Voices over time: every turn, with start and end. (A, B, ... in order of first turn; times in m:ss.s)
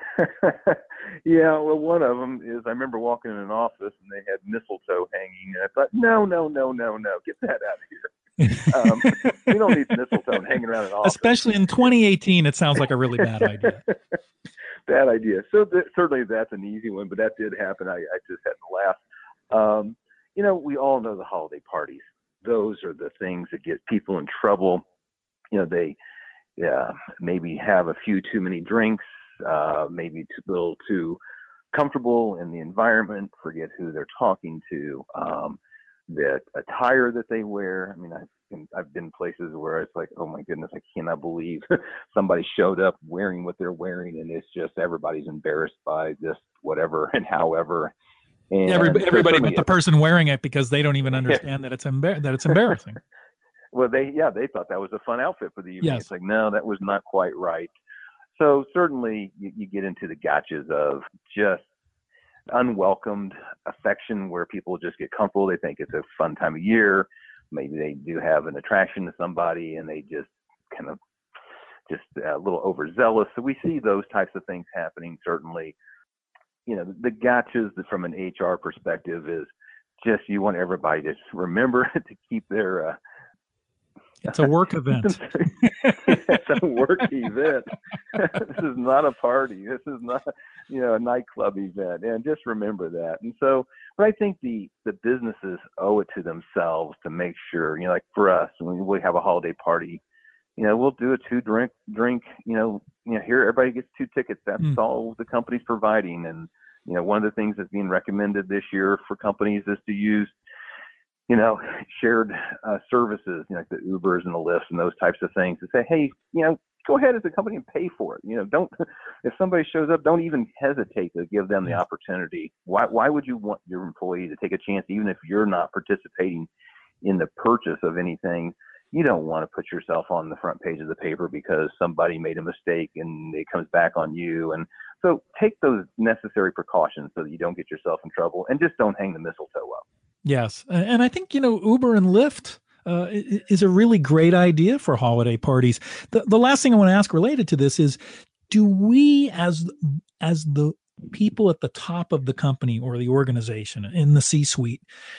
0:00.2-0:11.3 A
0:08.6-0:09.1 B
0:11.0-0:13.8 B
0:14.9-0:19.0 A
0:19.5-0:24.8 A
0:25.5-0:26.0 A
0:26.6-0:31.2 A
0:31.7-0:47.9 A
0:48.5-0:49.7 A
0:48.7-0:53.0 B
0:53.7-0:57.7 A
0:55.8-0:56.1 B
0:58.4-1:01.7 A
1:02.5-1:11.0 A
1:11.9-1:15.8 A
1:16.7-1:19.5 A
1:20.0-1:23.0 A
1:24.2-1:26.4 B
1:24.9-1:40.0 A
1:40.6-1:50.3 A
1:51.3-2:06.5 A
2:07.0-2:19.8 A
2:20.2-2:34.8 B